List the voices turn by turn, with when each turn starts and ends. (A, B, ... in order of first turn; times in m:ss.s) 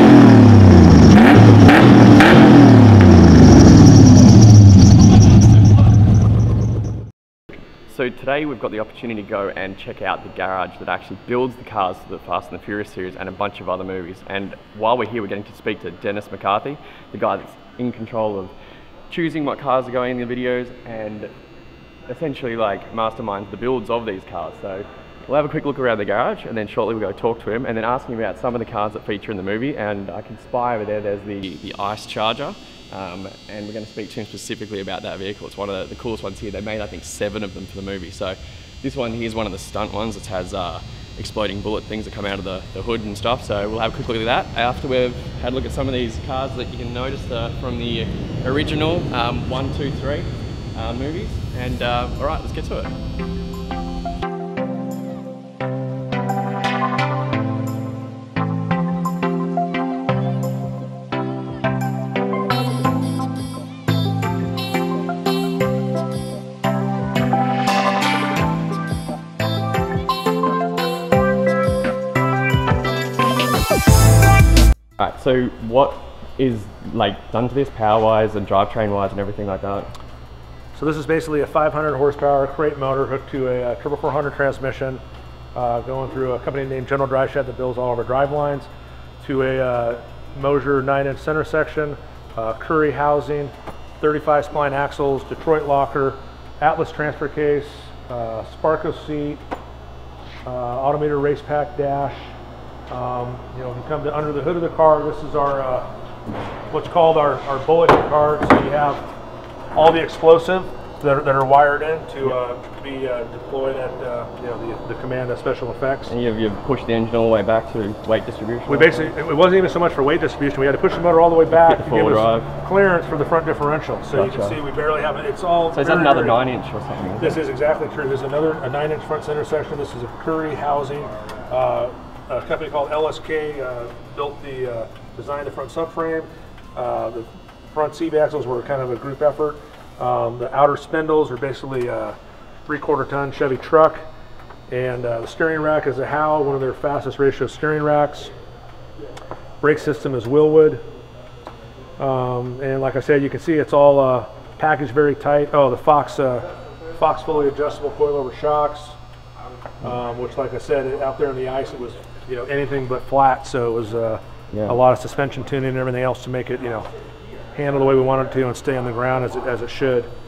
0:07.9-0:18.5 A
0:19.1-0:21.3 A
0:22.1-0:52.9 A
1:15.0-1:19.9 A
1:20.7-1:25.0 B
1:25.6-1:28.7 B
1:29.2-1:39.4 B
1:40.4-1:42.3 B
1:42.9-1:45.9 B
1:46.7-1:49.1 B
1:49.7-1:56.1 B
1:56.1-1:59.1 A
1:58.7-2:06.4 B
2:01.5-2:02.5 A
2:04.1-2:04.6 A
2:05.7-2:07.4 A
2:07.2-2:24.0 B
2:24.7-2:28.3 B
2:29.6-2:30.8 B
2:32.0-2:39.0 B
2:39.8-2:46.9 B
2:44.5-2:44.8 A
2:47.6-2:50.1 B